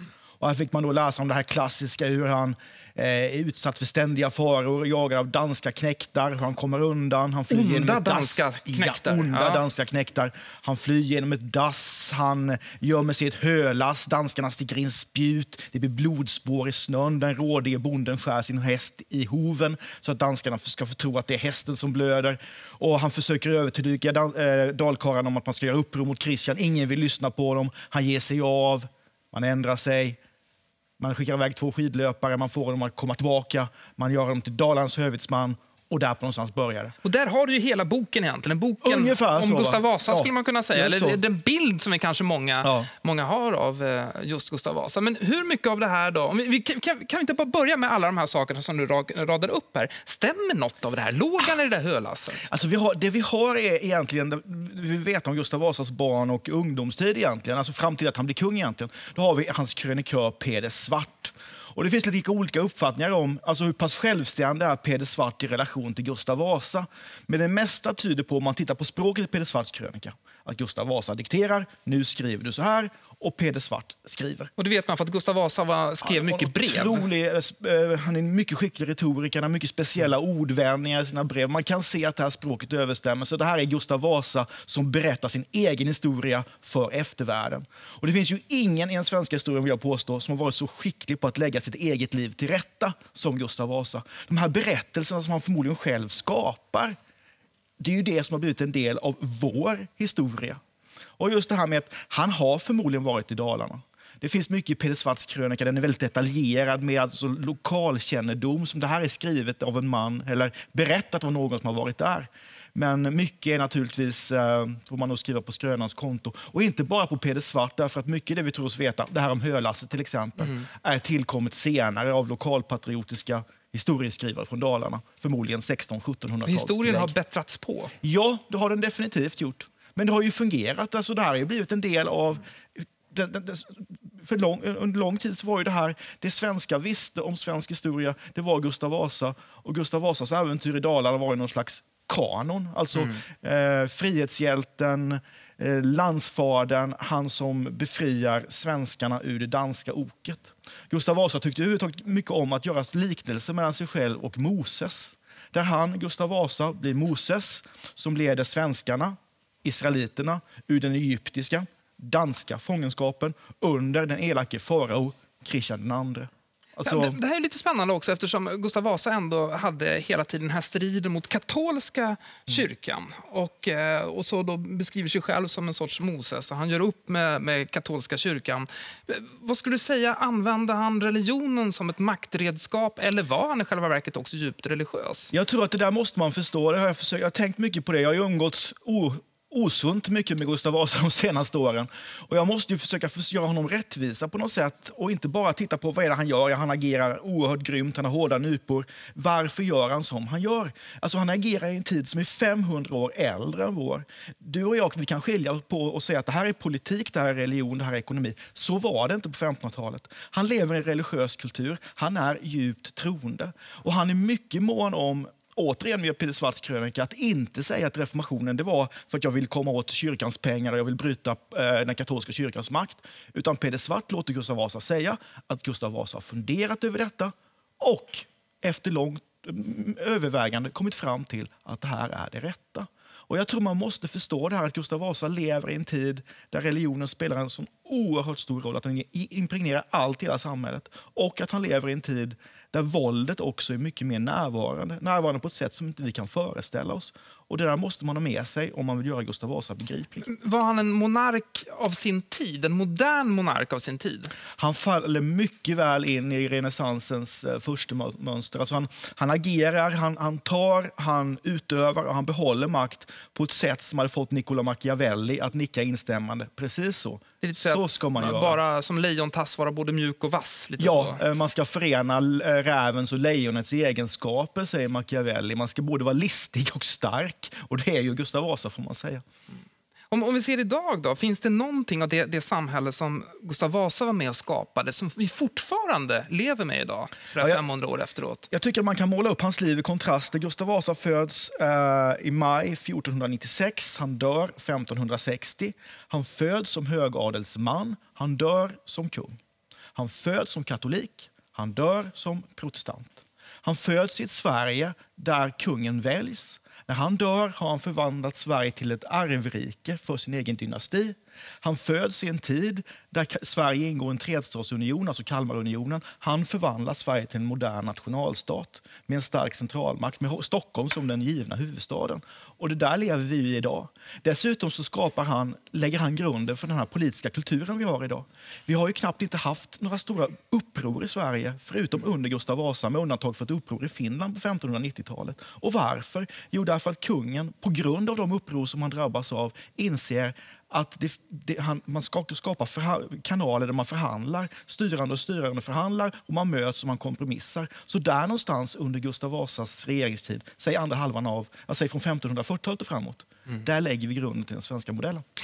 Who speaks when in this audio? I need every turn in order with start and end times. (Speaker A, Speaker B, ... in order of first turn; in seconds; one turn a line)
Speaker A: 0.4-30.2
Speaker B: 7.5-9.6
Speaker A: 31.0-36.9
Speaker B: 37.0-52.5
Speaker A: 38.8-41.2
Speaker A: 42.6-42.9
Speaker A: 52.5-74.5
Speaker B: 74.6-77.0
Speaker A: 76.0-96.9
Speaker A: 97.8-100.6
Speaker A: 101.2-127.1
Speaker B: 126.4-127.9
Speaker A: 128.0-167.2
Speaker B: 166.8-185.3
Speaker A: 185.3-250.3
Speaker B: 250.2-254.3
Speaker A: 254.6-268.6
Speaker B: 267.4-271.2
Speaker A: 270.8-279.2
Speaker B: 280.1-288.5
Speaker A: 288.5-299.4
Speaker A: 299.9-355.2